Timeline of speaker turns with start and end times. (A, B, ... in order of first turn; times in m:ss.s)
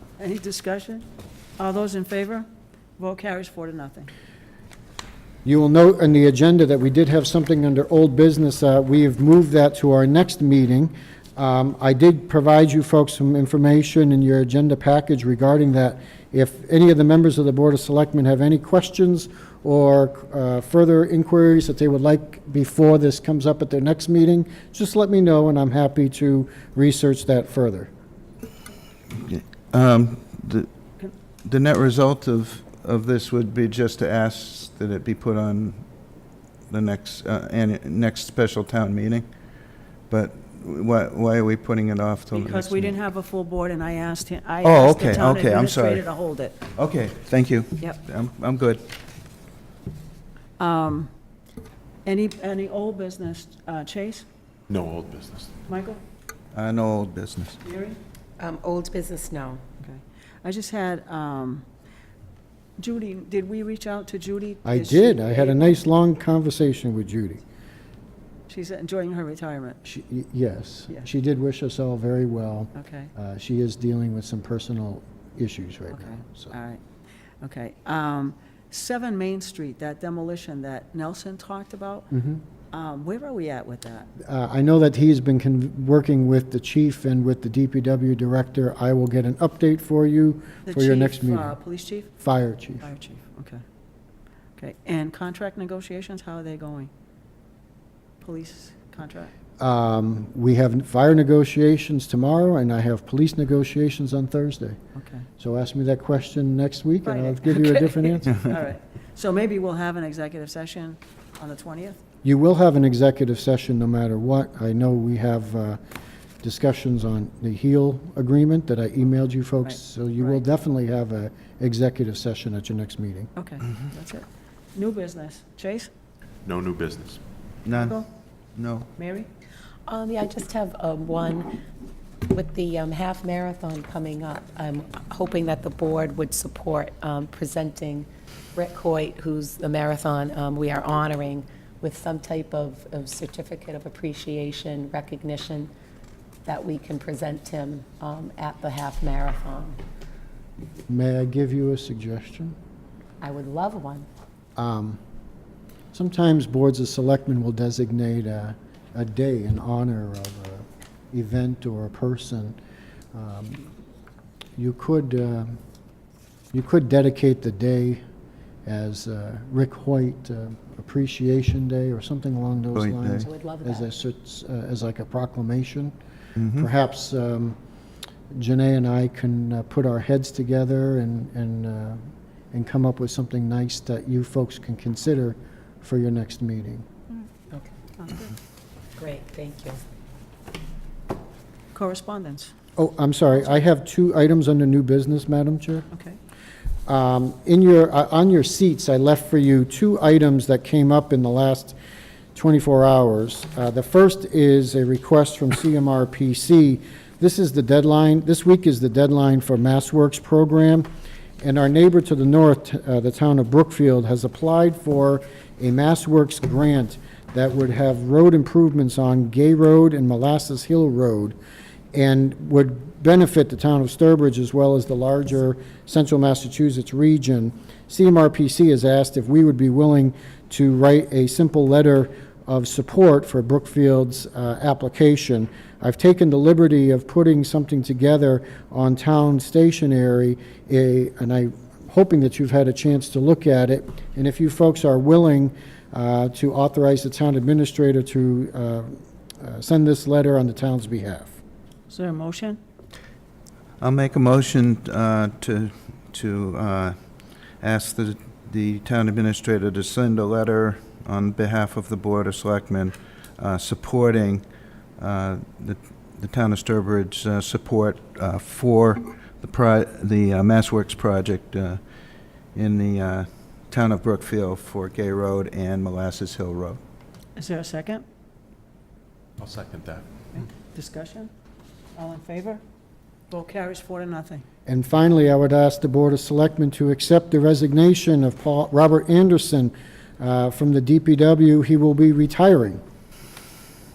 0:00.2-0:01.1 A
0:01.6-0:02.5 A
0:03.0-0:04.1 A
0:05.4-0:27.9 B
0:29.2-0:30.7 C
0:31.4-0:35.8 C
0:36.7-0:39.3 C
0:40.1-0:43.0 C
0:42.3-0:46.6 A
0:44.6-0:46.1 C
0:46.8-0:48.8 C
0:50.6-0:51.1 A
0:52.0-0:54.3 A
0:54.7-0:55.6 D
0:55.7-0:56.0 A
0:56.5-0:57.6 C
0:57.6-0:58.0 A
0:58.4-0:59.6 E
0:59.8-1:01.6 A
1:02.8-1:05.8 A
1:04.6-1:07.4 B
1:08.5-1:09.8 A
1:09.8-1:16.5 B
1:12.8-1:13.1 A
1:15.9-1:16.8 A
1:17.4-1:22.1 A
1:22.1-1:22.4 B
1:22.7-1:24.1 A
1:24.2-1:31.6 B
1:30.7-1:32.1 A
1:32.2-1:32.9 B
1:32.8-1:33.6 A
1:34.6-1:36.9 A
1:38.2-1:39.3 A
1:39.6-1:44.8 B
1:45.0-1:45.3 A
1:45.4-1:48.4 B
1:47.0-1:52.0 A
1:52.2-1:55.8 B
1:56.4-2:03.3 B
1:59.6-2:00.4 A
2:03.4-2:05.9 A
2:06.4-2:07.2 D
2:07.6-2:08.0 C
2:07.7-2:08.1 A
2:08.6-2:08.9 C
2:09.0-2:09.3 A
2:09.9-2:11.5 E
2:12.3-2:25.7 E
2:26.5-2:29.8 E
2:30.9-2:32.6 B
2:33.2-2:34.1 E
2:34.6-2:35.0 B
2:35.9-2:42.6 B
2:43.1-2:43.7 B
2:44.6-2:45.6 B
2:46.5-2:48.0 B
2:48.6-2:55.9 B
2:52.8-2:53.3 C
2:53.2-2:53.9 E
2:56.4-2:56.7 C
2:56.5-2:57.6 B
2:58.3-3:02.0 B
3:02.5-3:06.8 B
3:08.0-3:08.3 A
3:09.0-3:09.8 E
3:11.7-3:12.5 A
3:12.8-3:15.9 B
3:15.9-3:16.2 A
3:16.9-3:21.8 B
3:22.4-3:30.9 B
3:31.4-3:41.4 B
3:41.9-4:11.3 B
4:11.9-4:12.6 A
4:13.8-4:17.0 C
4:17.6-4:24.4 C
4:25.0-4:31.8 C
4:32.6-4:36.8 C
4:37.4-4:38.0 A
4:39.4-4:40.1 D
4:40.3-4:41.3 A
4:42.0-4:42.6 A
4:43.3-4:44.4 A
4:44.7-4:52.8 B